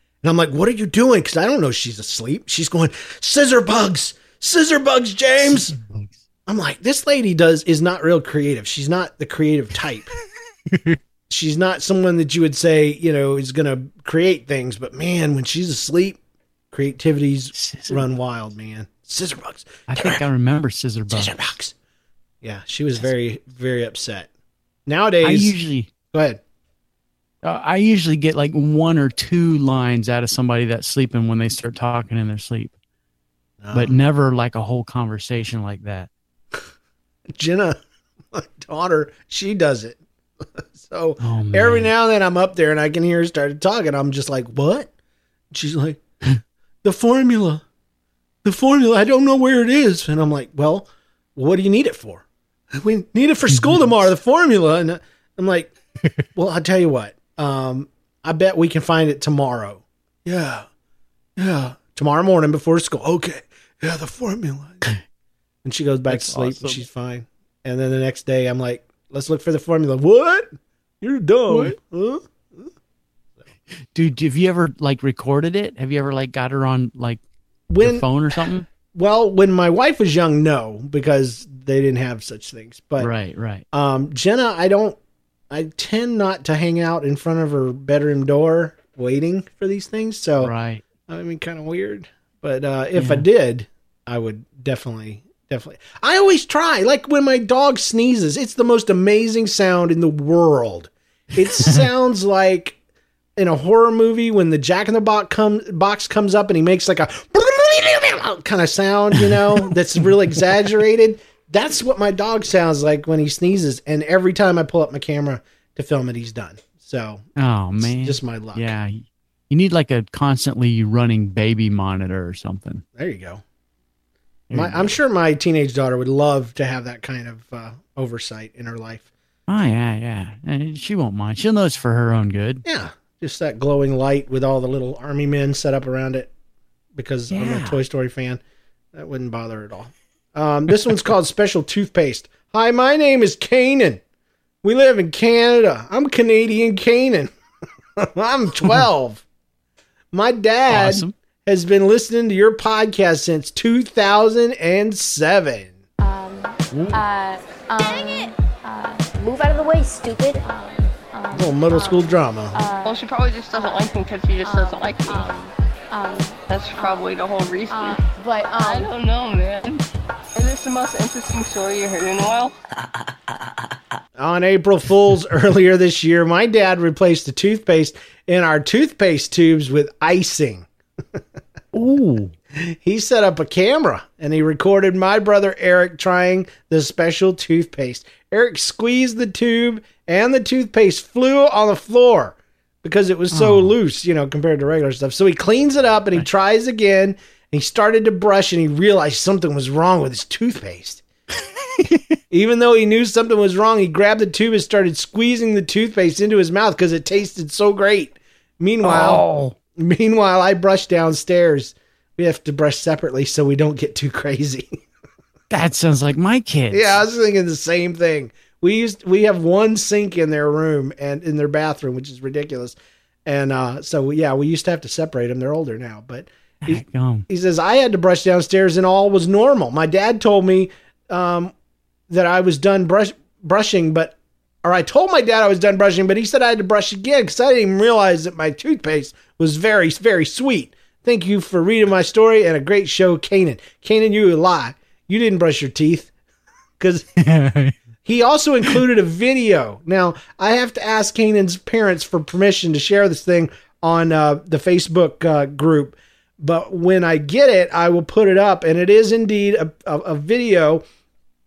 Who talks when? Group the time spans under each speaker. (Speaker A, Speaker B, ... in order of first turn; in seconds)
Speaker A: 0.2-5.8, 6.5-10.1, 11.3-16.2, 16.7-20.2, 21.1-21.7, 22.4-24.3, 24.9-25.5, 26.1-26.4, 33.6-34.0, 37.3-37.8, 38.3-40.0, 40.7-44.9, 45.5-46.0, 46.8-47.6, 48.4-55.7, 56.3-60.6, 61.4-64.8, 65.6-72.7, 77.7-83.1, 83.7-85.0, 85.5-90.5, 91.1-102.8, 103.4-117.2, 117.8-118.7, 123.0-123.4, 124.5-129.1, 132.6-136.3, 136.9-138.4, 138.9-144.0, 144.6-147.3, 147.9-149.2, 150.1-155.7, 161.3-162.6, 174.2-181.2, 182.5-201.0, 202.3-214.8, 216.7-231.5, 232.1-246.1, 246.8-247.0, 248.0-260.8
Speaker B: 5.4-6.2, 10.7-11.0, 17.5-18.0, 19.9-21.4, 25.2-25.9, 27.4-32.7, 33.7-36.1, 41.2-41.9, 66.1-66.8, 71.5-71.8, 73.9-77.2, 77.8-78.7, 83.0-83.6, 90.4-90.8, 93.0-93.2, 101.5-101.8, 117.4-122.8, 124.5-124.9, 129.5-132.6, 137.3-137.8, 150.7-151.1, 156.7-157.0, 181.7-182.3, 193.3-193.8, 208.8-209.5, 215.5-217.0, 226.6-227.3, 247.2-247.8
Speaker C: 156.0-163.0, 164.4-167.1, 167.7-168.9
Speaker D: 162.8-165.5, 166.5-169.8, 170.3-172.5